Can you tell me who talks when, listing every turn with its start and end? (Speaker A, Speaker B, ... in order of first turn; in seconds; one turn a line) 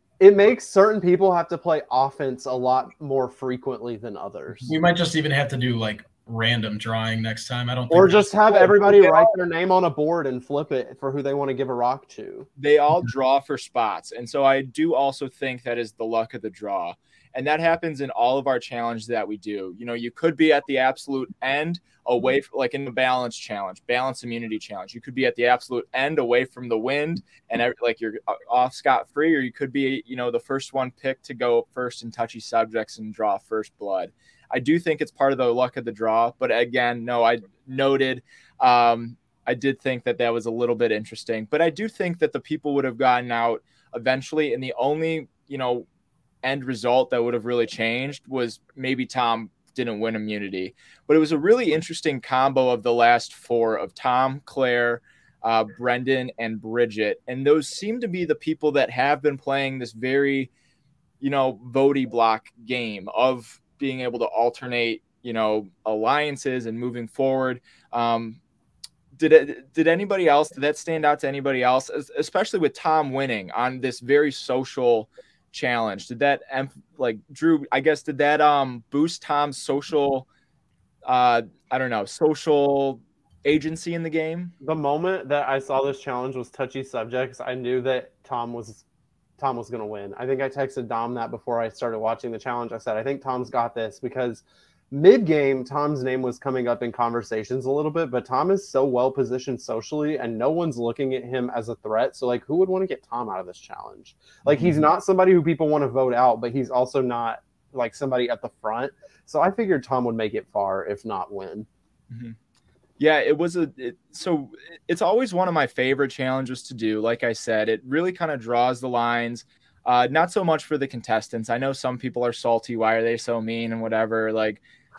Speaker A: 0.2-4.7
Speaker B: 4.7-8.3
Speaker A: 7.9-12.5
Speaker C: 8.5-9.3
Speaker C: 12.6-45.9
Speaker C: 46.4-60.5
Speaker C: 61.2-68.4
Speaker C: 69.2-80.3
Speaker C: 81.0-84.5
Speaker A: 84.6-88.8
Speaker A: 89.4-111.7
Speaker C: 104.5-104.8
Speaker C: 112.1-112.3
Speaker C: 113.0-124.6